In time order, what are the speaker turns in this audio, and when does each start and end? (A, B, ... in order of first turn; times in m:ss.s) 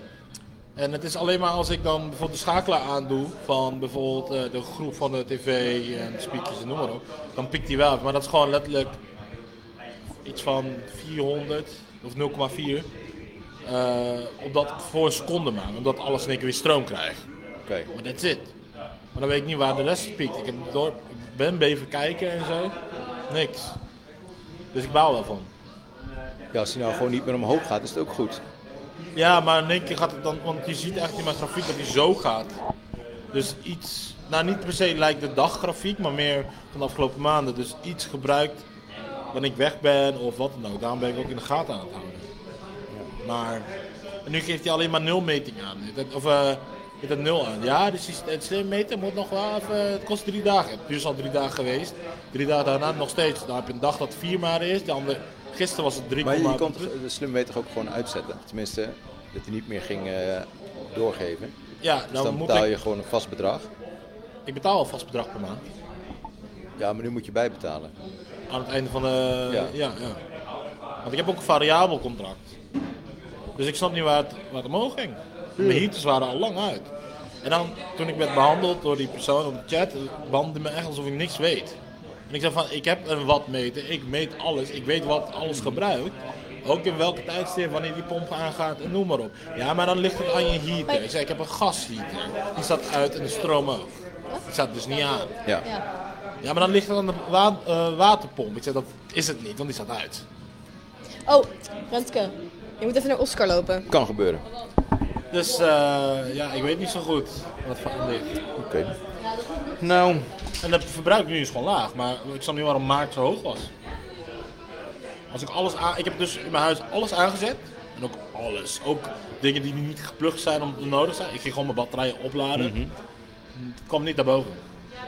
0:00.8-0:09.0 A
0:10.2-0:12.9 A
0:13.6-0:17.2 A
0:17.9-0:18.5 A
0:19.1-0:22.8 A
0:23.3-0:23.7 A
0:24.7-0:25.5 A
0:26.5-0:28.4 B
0:29.1-0:32.6 A
0:33.3-0:38.6 A
0:39.3-0:42.3 A
0:43.2-0:43.7 A
0:44.2-0:56.9 A
0:56.2-1:01.6 B
1:01.8-1:02.7 A
1:02.1-1:03.7 B
1:04.4-1:05.6 A
1:06.8-1:07.9 B
1:08.5-1:10.2 A
1:09.5-1:09.7 B
1:11.0-1:12.5 A
1:13.6-1:16.9 A
1:15.6-1:15.9 B
1:17.4-1:21.8 A
1:22.3-1:34.0 A
1:34.5-1:35.3 A
1:36.4-1:40.2 A
1:41.2-1:43.9 C
1:43.9-1:44.4 B
1:45.3-1:48.3 A
1:48.6-1:48.9 B
1:49.8-1:50.3 B
1:50.6-1:53.7 A
1:55.3-2:02.7 A
2:02.5-2:02.9 B
2:03.5-2:04.6 A